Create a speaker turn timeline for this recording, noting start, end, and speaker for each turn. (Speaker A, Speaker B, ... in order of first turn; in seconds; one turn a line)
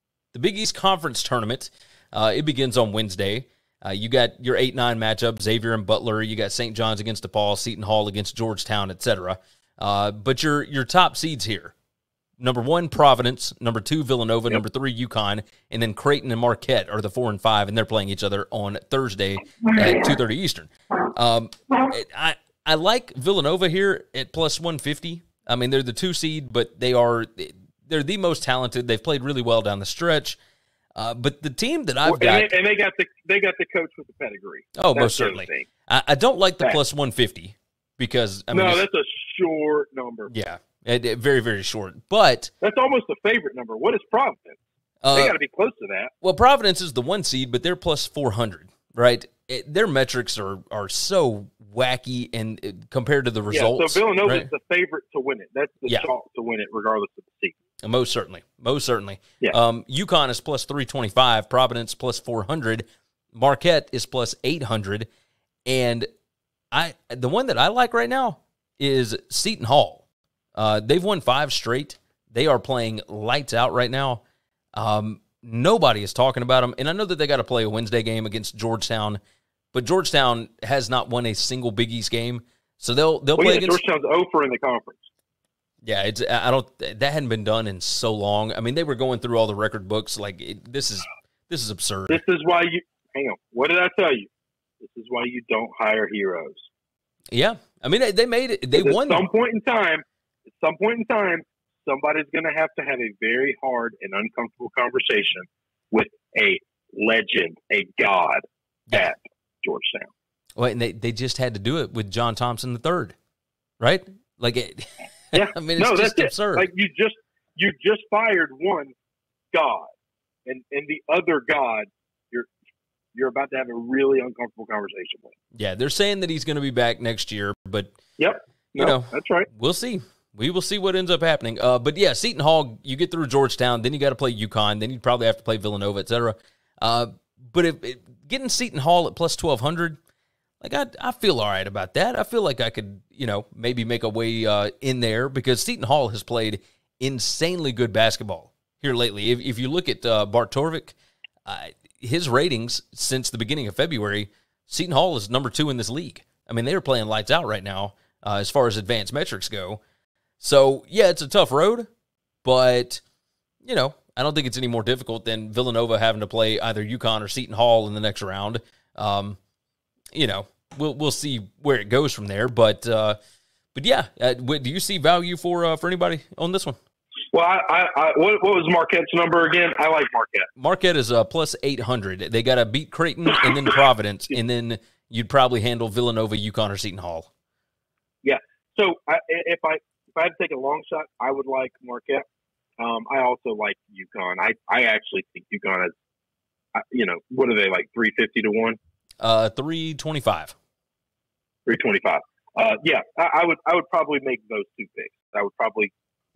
Speaker A: 0.3-11.7
Speaker A: 12.4-30.4
Speaker A: 30.9-32.5
Speaker B: 32.0-35.7
Speaker A: 34.8-38.8
Speaker B: 38.5-40.3
Speaker A: 40.3-42.5
Speaker B: 42.6-44.6
Speaker A: 45.0-45.3
Speaker B: 45.1-46.1
Speaker A: 46.2-54.5
Speaker B: 53.5-57.5
Speaker A: 57.8-65.1
Speaker A: 65.7-66.1
Speaker A: 66.7-70.0
Speaker A: 70.5-74.2
Speaker A: 74.8-79.2
Speaker A: 79.7-83.8
Speaker B: 83.3-85.1
Speaker A: 85.8-92.2
Speaker B: 92.1-94.3
Speaker B: 94.8-96.7
Speaker A: 97.3-99.3
Speaker B: 98.7-110.1
Speaker A: 110.6-113.2
Speaker A: 113.8-116.7
Speaker B: 115.3-118.9
Speaker B: 119.5-119.9
Speaker B: 120.5-122.5
Speaker B: 123.1-125.3
Speaker A: 125.5-127.9
Speaker B: 128.2-129.5
Speaker A: 128.8-140.0
Speaker A: 140.6-159.8
Speaker A: 160.4-161.9
Speaker A: 162.4-163.0
Speaker A: 163.6-169.4
Speaker A: 170.1-173.2
Speaker A: 173.7-176.8
Speaker B: 177.3-180.5
Speaker A: 180.6-187.3
Speaker B: 188.2-192.2
Speaker B: 192.8-195.9
Speaker B: 196.7-198.8
Speaker A: 199.2-200.5
Speaker B: 201.7-205.9